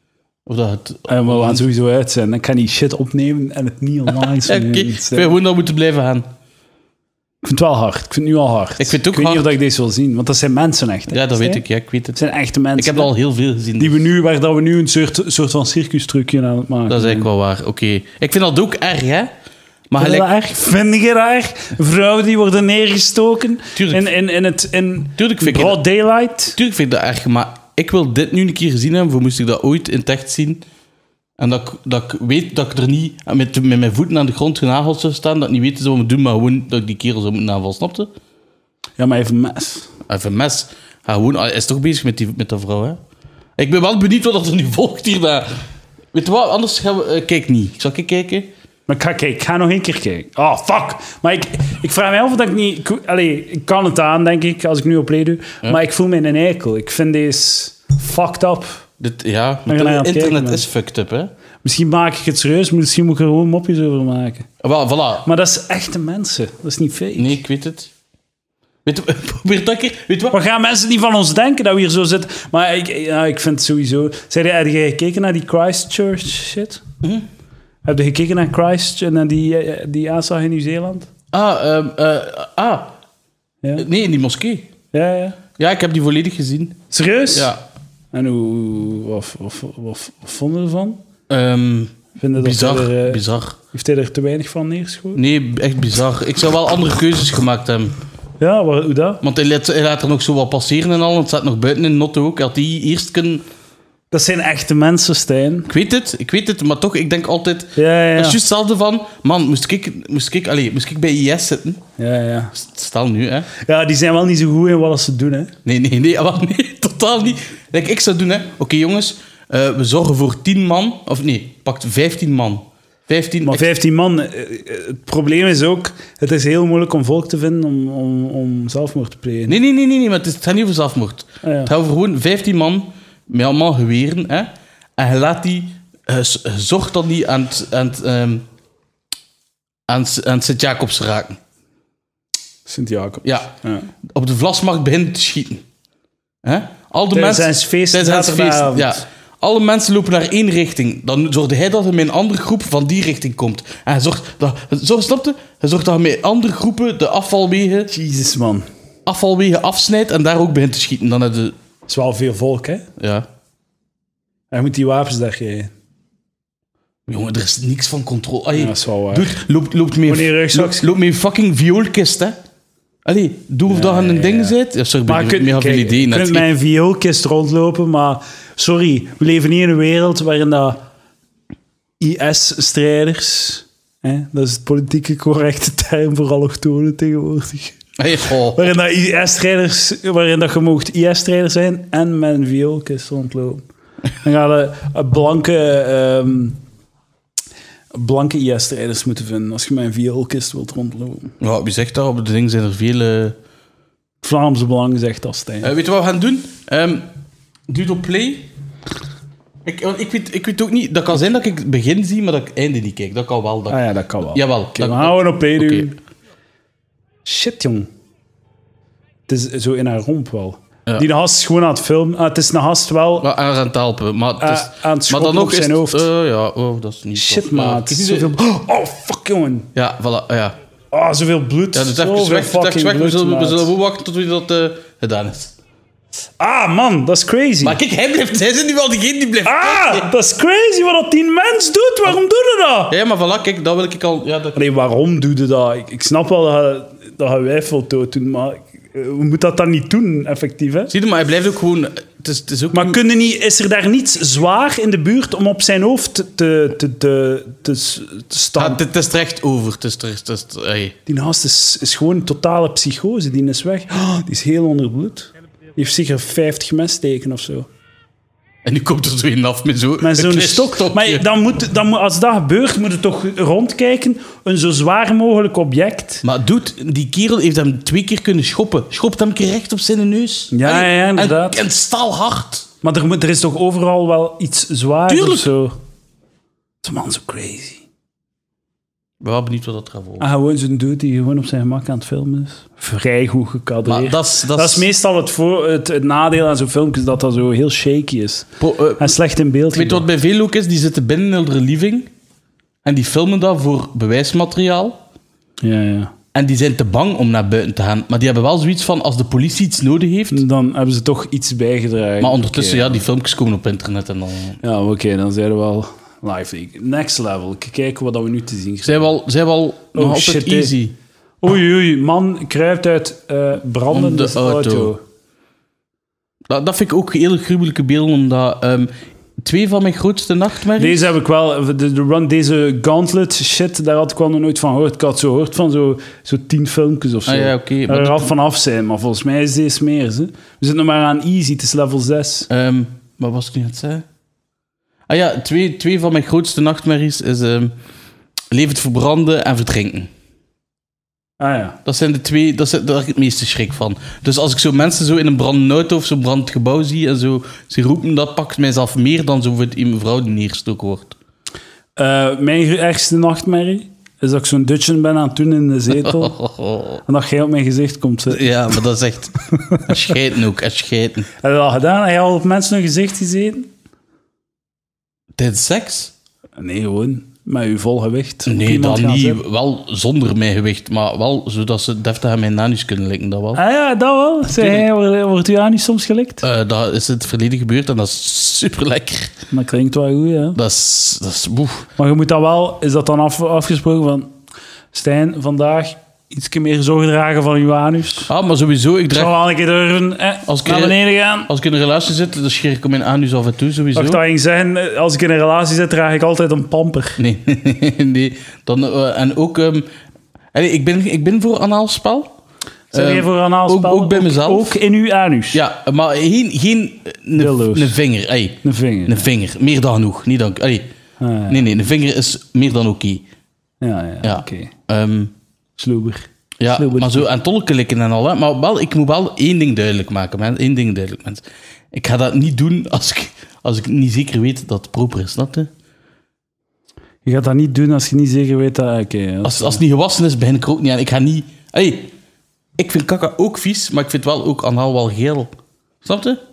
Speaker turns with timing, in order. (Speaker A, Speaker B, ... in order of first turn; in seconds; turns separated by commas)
Speaker A: 0.5-1.6, Speaker B: 1.1-5.3, Speaker A: 4.1-6.3, Speaker B: 7.4-11.6, Speaker A: 8.8-9.5, Speaker A: 11.1-12.2, Speaker B: 12.1-13.1, Speaker A: 12.8-14.1, Speaker B: 13.8-17.3, Speaker A: 16.9-19.3, Speaker A: 19.9-20.3, Speaker B: 20.0-26.6, Speaker A: 23.8-24.0, Speaker A: 25.2-25.8, Speaker A: 26.5-30.6, Speaker A: 31.4-38.1, Speaker B: 39.0-39.9, Speaker A: 40.1-43.0, Speaker A: 43.6-45.6, Speaker A: 46.1-48.5, Speaker B: 48.9-58.8, Speaker A: 59.0-61.3, Speaker B: 59.7-60.6, Speaker B: 61.6-64.5, Speaker A: 64.6-65.3, Speaker B: 65.2-67.4, Speaker A: 67.2-67.9, Speaker A: 68.8-70.4, Speaker B: 70.3-76.8, Speaker A: 77.0-77.3, Speaker B: 77.8-81.1, Speaker A: 81.3-82.9, Speaker A: 83.8-84.7, Speaker B: 84.9-85.4, Speaker A: 85.6-87.6, Speaker B: 86.9-87.5, Speaker B: 88.1-91.0, Speaker A: 91.3-93.5, Speaker B: 92.2-93.2, Speaker B: 93.7-95.2, Speaker A: 95.1-97.9, Speaker B: 98.4-99.2, Speaker A: 99.2-103.4, Speaker B: 104.1-105.7, Speaker A: 105.7-111.8, Speaker B: 107.8-108.4, Speaker B: 112.0-112.5, Speaker A: 112.5-113.5, Speaker B: 113.6-115.5, Speaker A: 115.6-123.7, Speaker B: 123.4-129.6, Speaker A: 129.5-138.4, Speaker B: 131.4-131.7, Speaker A: 139.9-141.4, Speaker B: 142.7-143.9, Speaker A: 143.2-143.5, Speaker A: 144.0-145.6, Speaker A: 146.4-157.9, Speaker B: 147.1-149.0, Speaker B: 157.9-158.7, Speaker A: 159.1-161.6, Speaker B: 161.9-162.8, Speaker A: 163.0-163.3, Speaker B: 164.5-165.7, Speaker A: 167.1-172.4, Speaker B: 168.5-169.4, Speaker B: 170.1-170.9, Speaker A: 173.0-176.4, Speaker B: 173.7-174.5, Speaker B: 175.1-180.8, Speaker B: 182.0-187.8, Speaker A: 188.0-188.7, Speaker B: 188.5-193.6, Speaker B: 194.2-196.6, Speaker B: 197.9-201.3, Speaker A: 201.4-203.4, Speaker B: 204.2-205.7, Speaker A: 205.6-207.1, Speaker A: 207.7-208.5, Speaker A: 209.6-215.9, Speaker B: 213.7-216.0, Speaker B: 217.2-217.9, Speaker B: 219.3-223.3, Speaker A: 223.2-228.4, Speaker B: 224.4-226.1, Speaker B: 227.1-229.7, Speaker A: 229.7-230.6, Speaker B: 230.9-233.7, Speaker A: 231.7-235.5, Speaker B: 236.4-237.8, Speaker A: 237.6-240.1, Speaker B: 239.4-242.9, Speaker A: 242.9-244.6, Speaker B: 244.5-250.9, Speaker A: 250.9-253.0, Speaker B: 252.7-258.8, Speaker A: 258.6-260.9, Speaker B: 261.1-267.7, Speaker A: 268.6-271.2, Speaker B: 270.0-276.2, Speaker A: 276.2-282.7, Speaker B: 280.5-281.6, Speaker B: 282.8-285.8, Speaker A: 285.1-285.5, Speaker B: 286.8-287.8, Speaker A: 289.2-290.3, Speaker B: 290.2-300.1, Speaker A: 293.8-294.9, Speaker A: 298.6-299.1, Speaker A: 299.7-302.1, Speaker A: 302.8-305.0, Speaker B: 305.6-306.1, Speaker A: 306.3-310.4, Speaker B: 310.3-313.0, Speaker A: 312.2-314.6, Speaker B: 314.6-319.1, Speaker A: 318.8-320.9, Speaker B: 319.9-320.7, Speaker B: 321.4-325.0, Speaker A: 323.9-324.9, Speaker A: 326.5-331.1, Speaker B: 330.8-342.5, Speaker A: 337.2-338.3, Speaker A: 342.5-344.0, Speaker A: 345.1-347.7, Speaker A: 348.5-350.1, Speaker B: 351.4-351.8, Speaker A: 351.8-361.1, Speaker B: 362.0-366.3, Speaker A: 365.9-367.0, Speaker B: 367.1-368.5, Speaker A: 368.3-371.3, Speaker B: 369.7-369.9, Speaker B: 371.4-373.7, Speaker A: 375.4-376.1, Speaker B: 376.6-379.4, Speaker A: 378.4-383.6, Speaker B: 383.5-386.4, Speaker A: 384.6-384.8, Speaker A: 386.4-389.3, Speaker B: 389.5-390.6, Speaker A: 390.5-391.9, Speaker B: 392.0-394.3, Speaker B: 394.9-398.3, Speaker A: 398.3-399.3, Speaker B: 399.1-401.5, Speaker A: 400.4-404.2, Speaker B: 403.9-407.2, Speaker A: 407.2-409.9, Speaker A: 410.5-412.3, Speaker B: 412.9-415.6, Speaker A: 412.9-414.8, Speaker A: 415.5-420.9, Speaker B: 417.4-418.0, Speaker B: 418.6-419.3, Speaker B: 421.2-421.6, Speaker A: 421.5-423.2, Speaker B: 423.8-424.7, Speaker A: 424.2-425.3, Speaker B: 425.8-427.3, Speaker A: 426.6-435.7, Speaker B: 437.2-439.8, Speaker A: 439.4-442.1, Speaker A: 442.8-446.4